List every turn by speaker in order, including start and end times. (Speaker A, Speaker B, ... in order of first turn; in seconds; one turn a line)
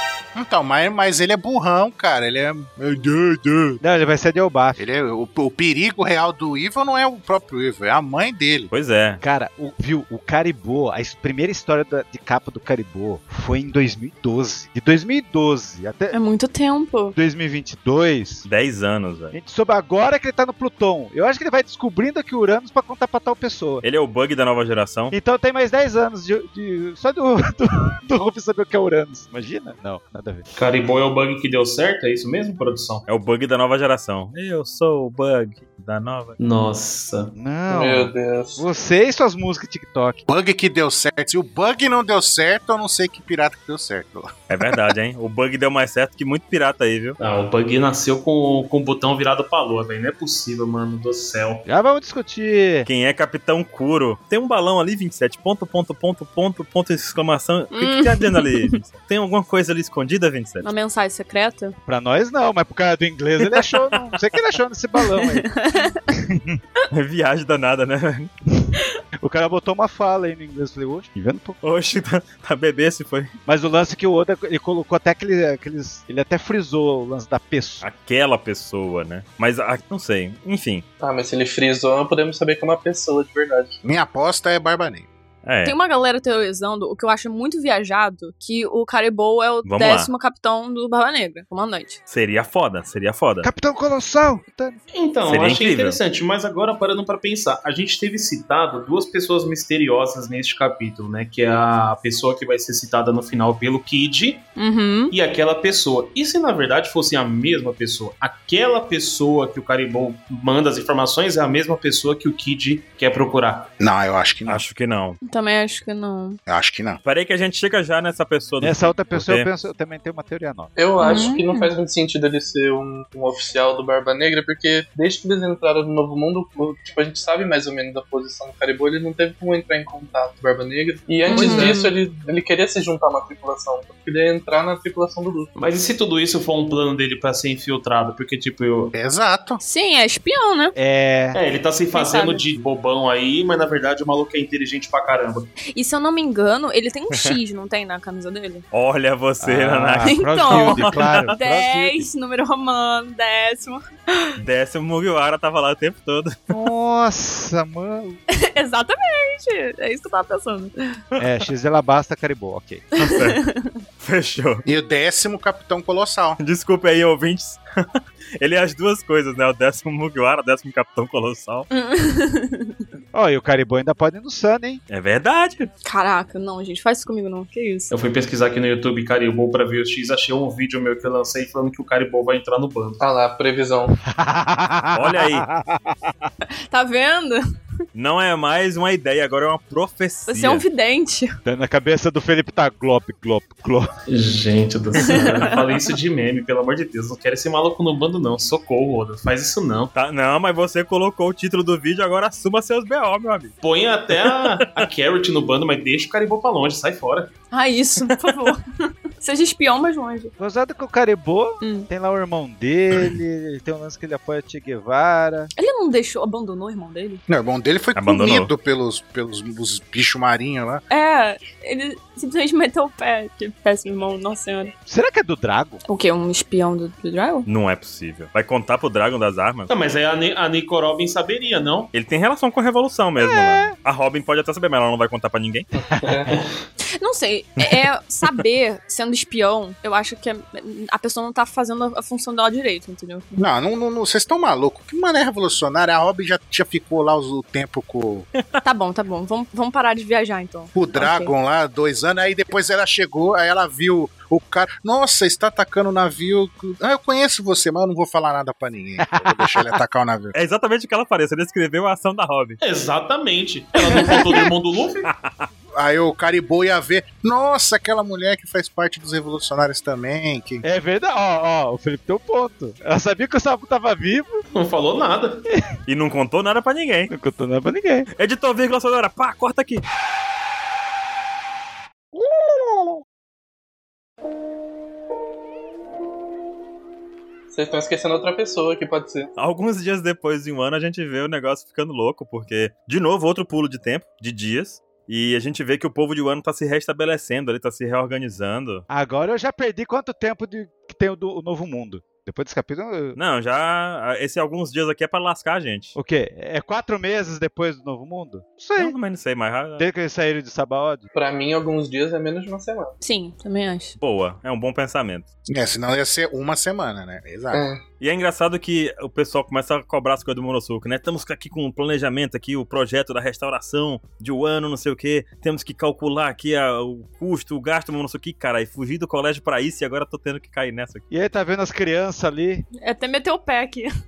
Speaker A: 0.3-3.8
Speaker B: 3.8-4.8
Speaker A: 4.8-8.7
Speaker C: 8.7-9.2
Speaker B: 9.2-16.1
Speaker D: 16.1-17.2
Speaker B: 17.2-18.5
Speaker C: 18.5-19.3
Speaker B: 19.3-23.8
Speaker C: 23.8-25.1
Speaker B: 25.1-30.4
Speaker E: 30.6-33.0
Speaker C: 33.1-36.4
Speaker E: 36.4-37.3
Speaker B: 37.4-40.3
Speaker F: 37.7-38.6
Speaker A: 40.3-44.8
Speaker C: 44.5-47.2
Speaker E: 47.2-51.6
Speaker B: 51.7-52.9
Speaker C: 52.9-60.7
Speaker D: 57.7-58.7
Speaker D: 60.6-61.8
Speaker B: 61.9-65.5
Speaker D: 65.1-66.0
Speaker B: 66.1-66.6
Speaker C: 66.9-68.3
Speaker B: 69.2-71.6
Speaker C: 71.6-73.3
Speaker B: 73.5-77.8
Speaker C: 77.8-80.8
Speaker F: 81.0-83.8
Speaker A: 83.8-85.1
Speaker C: 85.5-85.8
Speaker D: 85.6-92.0
Speaker C: 89.6-90.1
Speaker C: 92.1-93.5
Speaker B: 93.4-94.8
Speaker E: 94.9-104.5
Speaker C: 95.3-96.0
Speaker D: 104.6-105.1
Speaker E: 105.1-113.7
Speaker A: 113.8-114.6
Speaker C: 114.5-115.2
Speaker D: 115.2-116.4
Speaker A: 116.5-117.0
Speaker C: 117.0-119.5
Speaker B: 118.6-120.7
Speaker F: 120.8-135.5
Speaker D: 121.0-121.7
Speaker D: 131.3-131.9
Speaker E: 131.3-131.7
Speaker E: 135.6-138.9
Speaker A: 138.9-139.6
Speaker D: 139.6-140.8
Speaker B: 140.8-141.4
Speaker E: 141.3-145.5
Speaker D: 141.9-142.4
Speaker D: 145.7-148.7
Speaker C: 148.7-151.3
Speaker B: 149.4-152.1
Speaker D: 150.0-154.4
Speaker C: 154.4-156.6
Speaker B: 156.5-158.2
Speaker D: 158.3-160.7
Speaker B: 161.2-162.8
Speaker C: 163.0-163.4
Speaker D: 163.0-163.8
Speaker C: 164.0-164.6
Speaker A: 164.7-166.4
Speaker C: 166.4-171.7
Speaker D: 171.7-172.8
Speaker B: 173.1-174.8
Speaker C: 174.9-175.7
Speaker D: 175.8-177.9
Speaker E: 177.9-183.0
Speaker F: 183.0-184.0
Speaker B: 184.0-186.3
Speaker C: 184.9-185.5
Speaker D: 186.7-187.4
Speaker C: 187.9-190.7
Speaker D: 190.3-191.3
Speaker B: 191.4-193.9
Speaker E: 194.1-199.9
Speaker D: 195.0-195.5
Speaker C: 199.9-203.6
Speaker E: 203.6-207.3
Speaker D: 207.5-208.6
Speaker D: 209.2-210.3
Speaker B: 210.4-215.5
Speaker D: 211.6-211.9
Speaker D: 215.6-217.2
Speaker A: 217.3-220.8
Speaker C: 218.0-218.5
Speaker D: 220.9-224.7
Speaker B: 224.9-225.8
Speaker D: 225.9-227.5
Speaker C: 227.5-229.7
Speaker E: 229.7-231.9
Speaker C: 231.9-235.7
Speaker B: 233.2-233.8
Speaker F: 235.8-236.3
Speaker D: 236.9-243.3
Speaker C: 237.6-238.4
Speaker A: 243.3-248.3
Speaker D: 248.6-251.3
Speaker A: 250.7-260.3
Speaker B: 259.1-259.6
Speaker C: 260.3-262.6
Speaker E: 262.6-265.1
Speaker C: 265.1-265.5
Speaker A: 265.7-270.6
Speaker B: 270.6-274.4
Speaker E: 274.5-275.4
Speaker C: 275.9-277.1
Speaker B: 277.1-278.1
Speaker C: 278.1-279.8
Speaker B: 282.4-282.9
Speaker F: 287.5-289.3
Speaker C: 289.4-298.8
Speaker B: 298.9-303.2
Speaker C: 303.2-306.0
Speaker B: 305.9-309.0
Speaker C: 308.8-309.9
Speaker B: 309.8-311.1
Speaker F: 311.1-312.9
Speaker D: 313.0-314.0
Speaker C: 314.0-315.3
Speaker A: 315.5-317.6
Speaker F: 317.5-317.8
Speaker C: 318.0-331.0
Speaker B: 331.1-332.7
Speaker D: 332.8-333.9